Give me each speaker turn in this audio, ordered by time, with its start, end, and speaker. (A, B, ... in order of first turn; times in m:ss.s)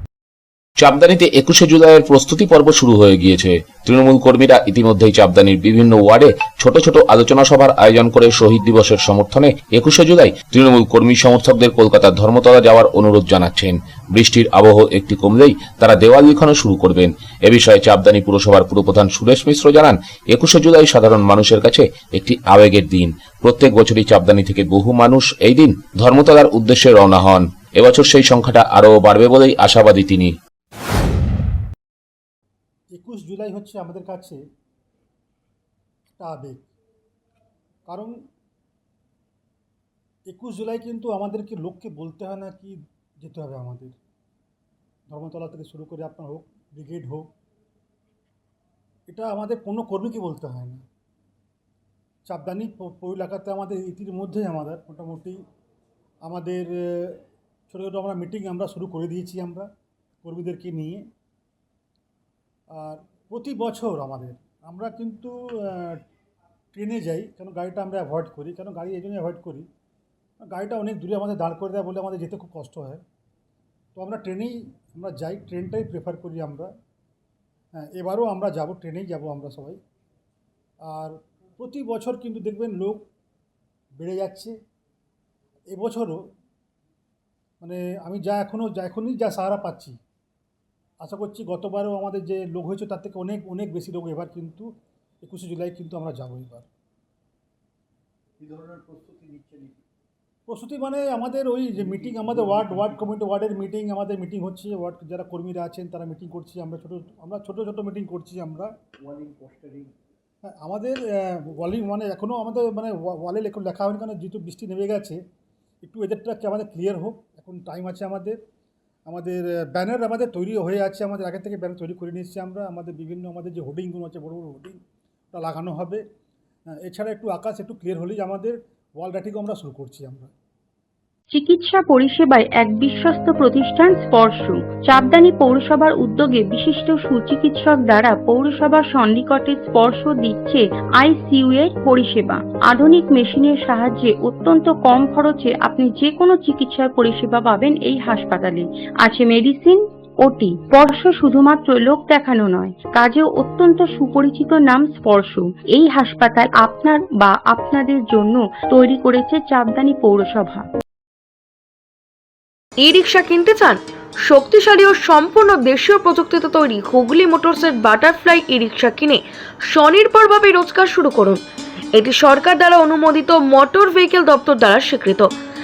0:00.8-0:30.3 A
0:32.9-0:34.4 B
0:36.2-0:36.7 B
0:37.9-0:38.1 B
0:40.3-0:44.0 B
0:45.1-0:47.3 B
0:49.1-0:50.8 B
0:52.2-0:55.4 B
0:56.2-0:59.7 B
1:00.2-1:01.0 B
1:02.7-1:06.0 B
1:06.7-1:09.7 B
1:10.4-1:13.0 B
1:14.0-1:16.7 B
1:17.8-1:19.8 B
1:20.8-1:23.0 B
1:24.0-1:24.6 B
1:25.7-1:26.2 B
1:27.6-1:30.0 B
1:31.0-1:34.7 B
1:35.2-1:36.7 B
1:38.4-1:39.8 C
1:40.5-1:48.7 B
1:41.8-1:43.1 C
1:49.0-1:49.9 C
1:50.5-1:55.2 B
1:55.8-1:58.4 B
1:59.1-2:04.8 B
2:05.3-2:06.0 B
2:06.8-2:10.3 B
2:11.3-2:40.6 D
2:42.8-2:51.4 E
2:51.9-2:55.3 E